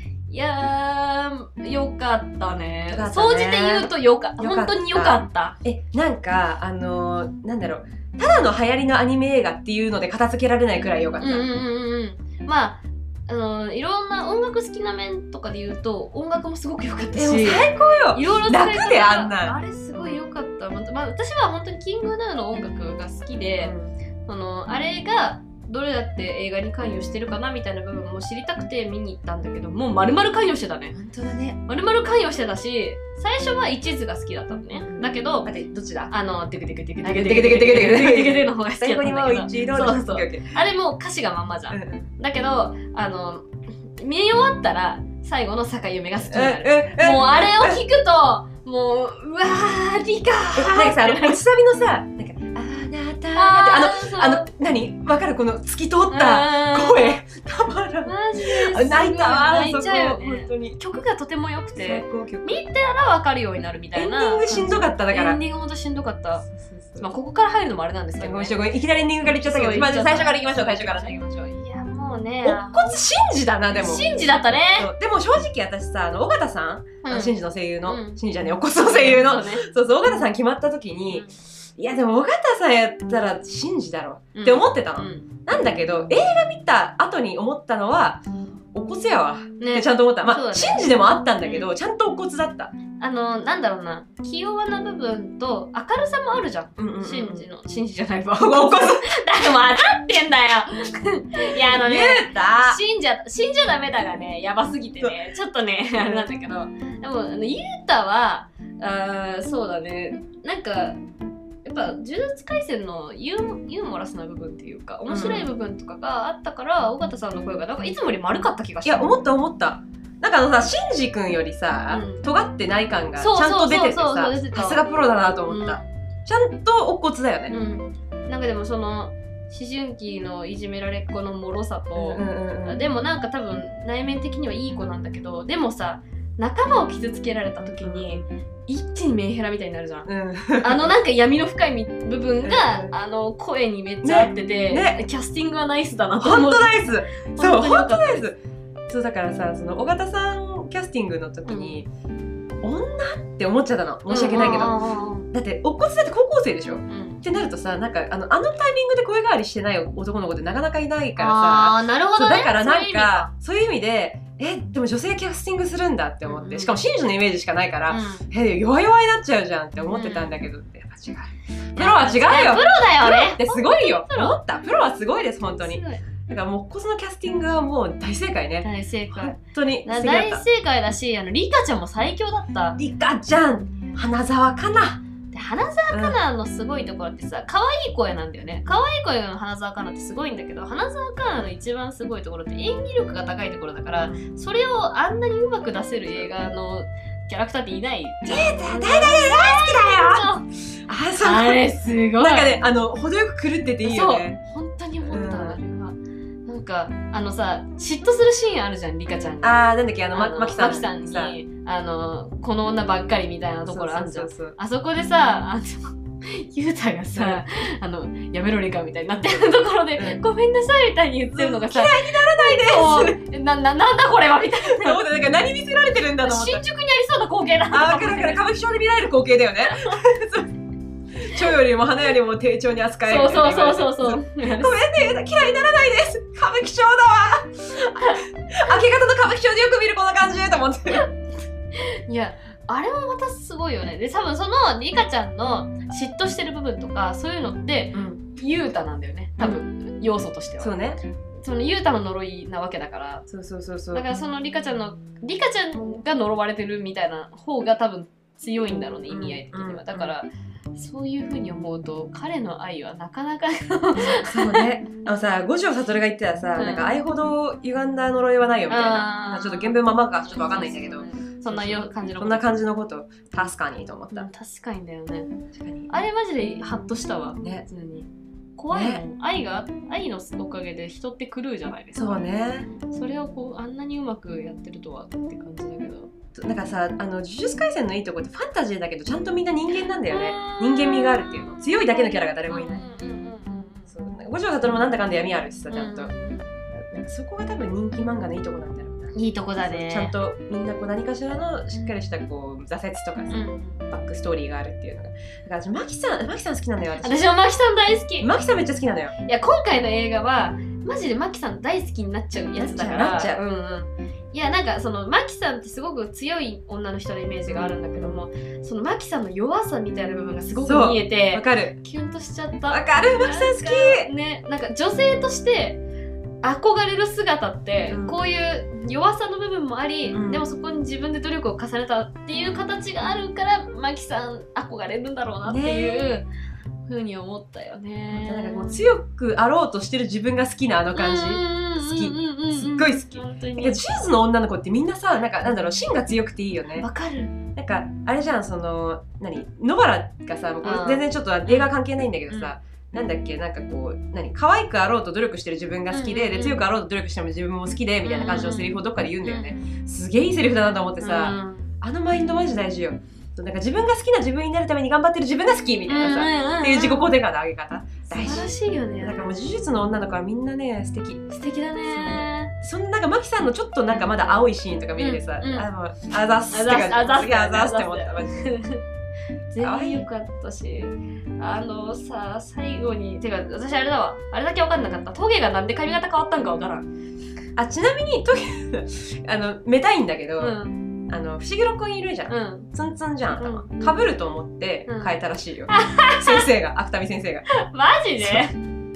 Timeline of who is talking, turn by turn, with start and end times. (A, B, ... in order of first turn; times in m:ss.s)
0:00.3-0:05.6 A
0:02.9-0:11.5 B
0:11.2-0:23.7 A
0:17.1-0:20.2 B
0:23.6-0:23.9 B
0:24.2-0:31.0 A
0:31.0-0:31.6 B
0:31.6-0:35.5 A
0:34.7-0:36.1 B
0:36.1-0:51.4 A
0:37.0-0:40.5 B
0:41.7-0:42.0 B
0:46.3-0:47.8 B
0:50.6-1:00.8 B
0:53.3-0:54.5 A
0:56.1-0:57.2 A
0:58.0-1:08.6 A
1:01.8-1:02.6 B
1:03.9-1:05.4 B
1:08.2-1:11.1 B
1:09.2-1:13.0 A
1:12.4-1:14.1 B
1:13.7-1:14.9 A
1:14.7-1:28.2 B
1:17.0-1:18.2 A
1:18.8-1:19.6 A
1:24.3-1:25.2 A
1:28.7-1:32.7 B
1:29.6-1:30.8 A
1:31.4-1:31.7 A
1:33.0-1:51.0 A
1:36.8-1:37.5 B
1:38.4-1:39.1 B
1:41.5-1:42.8 B
1:46.0-1:46.3 B
1:51.6-1:59.1 A
1:55.1-1:55.5 B
1:58.8-2:07.6 B
2:01.9-2:02.2 A
2:03.2-2:04.9 A
2:05.4-2:05.9 A
2:07.5-2:20.1 A
2:11.9-2:12.8 B
2:17.8-2:18.3 B
2:20.0-2:20.9 B
2:20.6-2:28.3 A
2:22.4-2:22.9 B
2:24.0-2:25.0 B
2:26.2-2:28.4 B
2:28.9-2:31.9 B
2:31.4-2:31.8 A
2:32.6-2:34.8 B
2:34.1-2:35.3 A
2:35.3-3:00.4 B
2:36.9-2:37.2 A
2:41.2-2:43.3 A
2:46.2-2:46.8 A
2:47.9-2:48.3 A
2:49.9-2:50.4 A
2:51.8-2:54.4 A
2:55.4-2:56.1 A
2:58.6-3:02.8 A
3:02.8-3:05.0 B
3:05.3-3:20.5 A
3:05.9-3:06.2 B
3:18.3-3:20.3 B
3:20.9-3:24.4 B
3:21.2-3:22.6 A
3:23.8-3:45.0 A
3:25.1-3:25.6 B
3:29.4-3:31.4 B
3:33.6-3:34.6 B
3:37.1-3:37.4 B
3:40.0-3:40.2 B
3:41.3-3:43.2 B
3:44.6-3:46.6 B
3:46.2-3:48.4 A
3:47.7-3:50.5 B
3:49.7-3:50.0 A
3:51.2-4:01.1 B
3:53.0-3:54.7 A
4:01.7-4:10.7 A
4:07.9-4:08.2 B
4:10.6-4:11.0 B
4:11.4-4:13.2 A
4:13.3-4:14.0 B
4:13.9-4:24.7 A
4:19.1-4:20.1 B
4:24.2-4:34.3 B
4:26.6-4:27.0 A
4:28.7-4:32.6 A
4:34.1-4:35.3 A
4:35.5-4:35.9 B
4:35.9-4:42.2 A
4:37.4-4:37.6 B
4:38.7-4:39.0 B
4:41.9-4:42.7 B
4:42.8-4:46.1 A
4:46.4-4:52.8 B
4:49.7-4:53.9 A
4:53.9-4:56.1 B
4:55.7-4:56.5 A
4:56.7-5:07.2 B
4:59.1-5:00.1 A
5:01.7-5:02.0 A
5:03.3-5:03.8 A
5:07.0-5:08.3 A
5:08.2-5:09.1 B
5:09.2-5:25.8 A
5:12.6-5:13.4 B
5:17.5-5:18.2 B
5:20.6-5:21.8 B
5:22.7-5:24.1 B
5:26.4-5:36.3 A
5:27.9-5:28.2 B
5:30.1-5:30.4 B
5:35.4-5:36.2 B
5:36.9-5:38.8 A
5:38.1-5:46.9 B
5:40.9-5:44.0 A
5:46.8-5:47.4 A
5:47.6-6:18.4 B
5:50.6-5:51.7 A
5:52.3-5:52.5 A
5:55.9-5:56.7 A
5:58.0-5:59.6 A
6:01.0-6:01.7 A
6:05.9-6:07.1 A
6:08.1-6:09.6 A
6:11.3-6:12.5 A
6:15.0-6:15.7 A
6:16.5-6:18.8 A
6:19.5-6:26.9 A
6:19.6-6:20.0 B
6:27.6-6:30.6 B
6:30.4-6:30.8 A
6:31.1-6:37.4 B
6:32.3-6:32.7 A
6:33.4-6:34.0 A
6:34.9-6:35.2 A
6:35.7-6:36.5 A
6:37.6-6:38.6 A